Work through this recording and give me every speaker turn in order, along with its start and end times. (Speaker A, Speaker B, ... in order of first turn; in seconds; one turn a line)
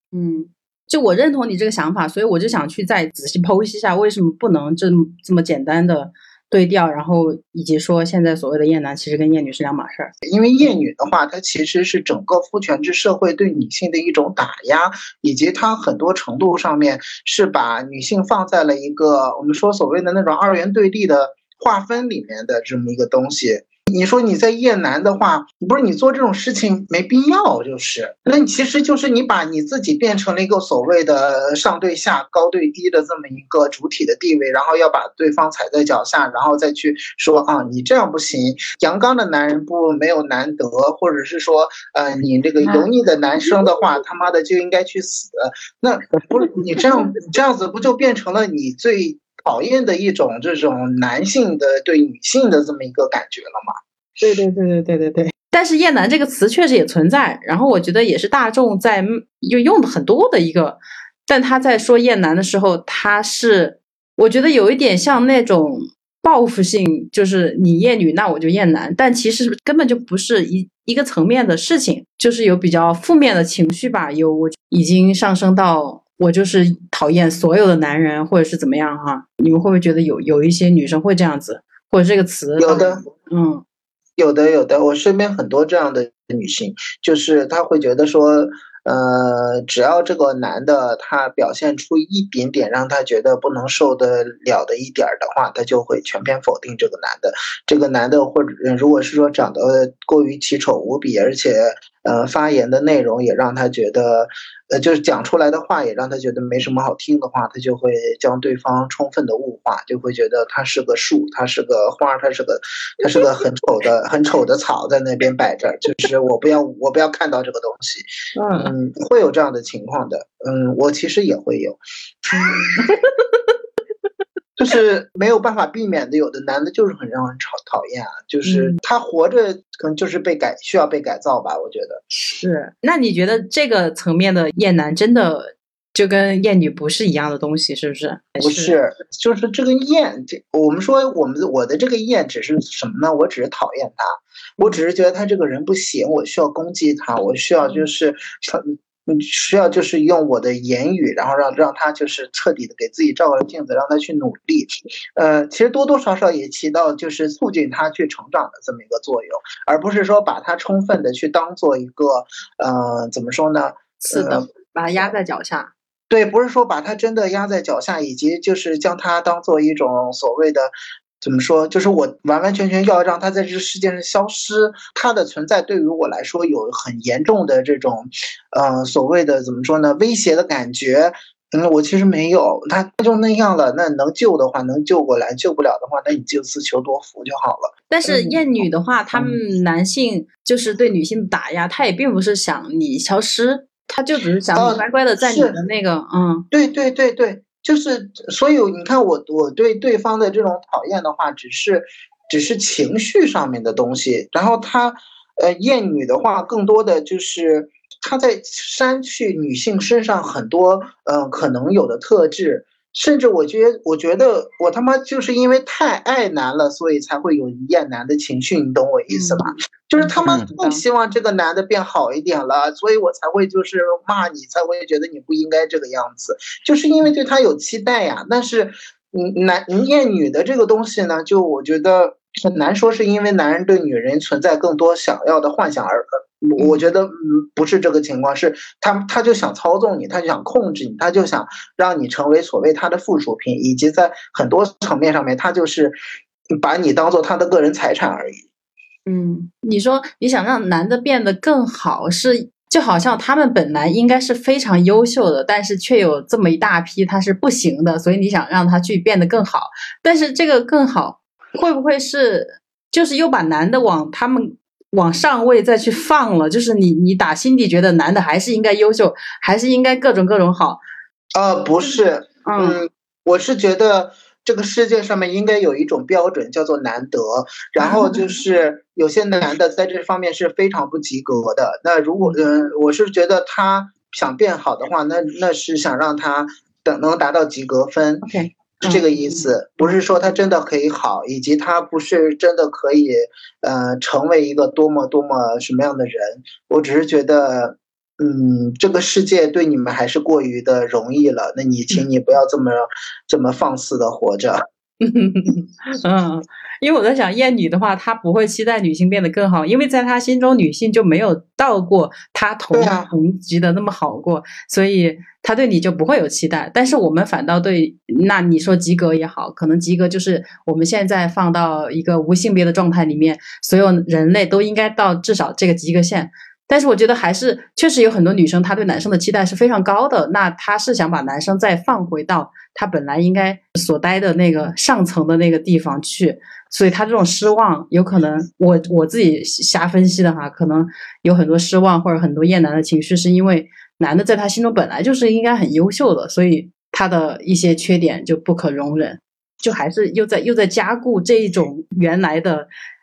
Speaker A: 0.1-10.1
Speaker B: 10.3-53.7
Speaker A: 54.2-83.6
Speaker B: 82.6-83.0
Speaker B: 84.2-122.8
Speaker A: 118.3-118.7
Speaker A: 122.8-123.3
Speaker B: 124.6-132.0
Speaker A: 128.4-128.8
Speaker A: 132.4-138.8
Speaker B: 138.4-164.4
Speaker A: 164.0-165.7
Speaker B: 166.1-189.4
Speaker A: 187.9-196.5
Speaker B: 194.6-195.6
Speaker B: 196.5-246.0
Speaker A: 219.1-220.8
Speaker B: 246.5-248.4
Speaker A: 249.1-270.8
Speaker B: 271.3-288.3
Speaker A: 272.4-272.8
Speaker A: 288.2-289.9
Speaker B: 288.8-304.6
Speaker A: 305.0-352.7
Speaker B: 312.7-313.1